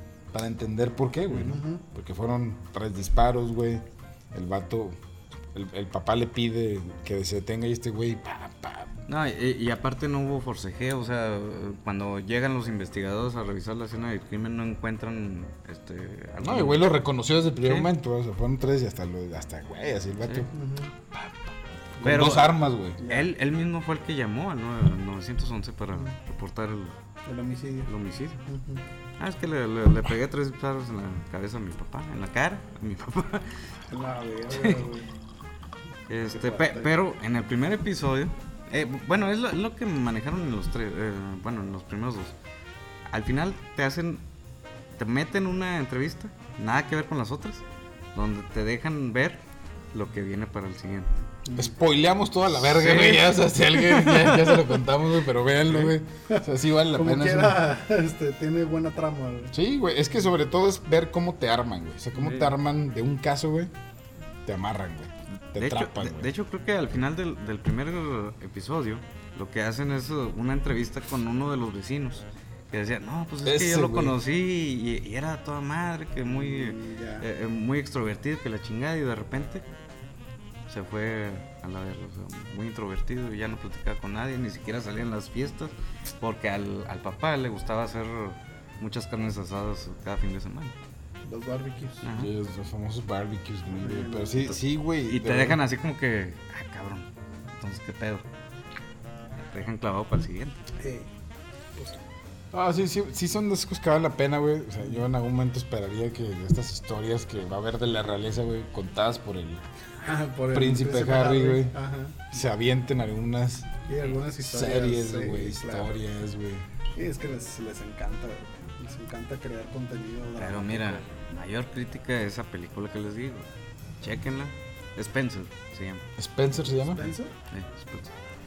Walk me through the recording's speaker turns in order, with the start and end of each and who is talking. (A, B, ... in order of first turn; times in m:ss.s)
0:00.3-0:05.0 A
0:01.4-0:01.8 B
0:05.5-0:08.9 A
0:09.1-0:16.9 C
0:16.4-0:20.5 A
0:17.6-0:17.9 C
0:20.2-0:20.5 C
0:20.5-0:20.9 B
0:22.0-0:22.4 B
0:22.0-0:23.0 A
0:22.0-0:27.0 C
0:23.0-0:23.3 B
0:27.2-0:27.9 B
0:27.9-0:28.4 C
0:28.5-0:28.8 B
0:29.2-0:33.6 C
0:33.9-0:35.1 B
0:34.5-0:34.8 C
0:36.1-0:42.3 C
0:36.3-0:36.9 B
0:43.1-0:44.2 C
0:45.0-0:47.6 C
0:48.1-0:49.4 C
0:49.9-0:51.1 C
0:51.4-0:51.7 B
0:51.5-0:57.6 A
0:52.6-0:54.6 C
0:55.6-0:55.9 C
0:56.3-0:59.5 B
0:59.5-1:03.7 A
1:02.2-1:02.5 C
1:04.4-1:06.3 A
1:05.5-1:19.6 C
1:13.4-1:14.2 A
1:16.3-1:17.3 B
1:20.7-1:30.7 C
1:31.2-1:32.0 B
1:32.0-1:32.3 C
1:32.1-1:35.6 A
1:33.7-1:34.5 B
1:35.0-1:38.2 C
1:39.4-1:40.6 C
1:40.8-1:41.1 B
1:42.5-1:49.6 A
1:50.0-1:52.2 B
1:50.5-1:51.7 A
1:52.3-1:53.8 A
1:53.9-1:56.0 B
1:54.4-1:56.6 A
1:57.0-2:01.0 B
2:00.4-2:03.4 C
2:04.0-2:06.0 C
2:06.2-2:07.0 A
2:06.8-2:07.3 B
2:07.0-2:08.1 C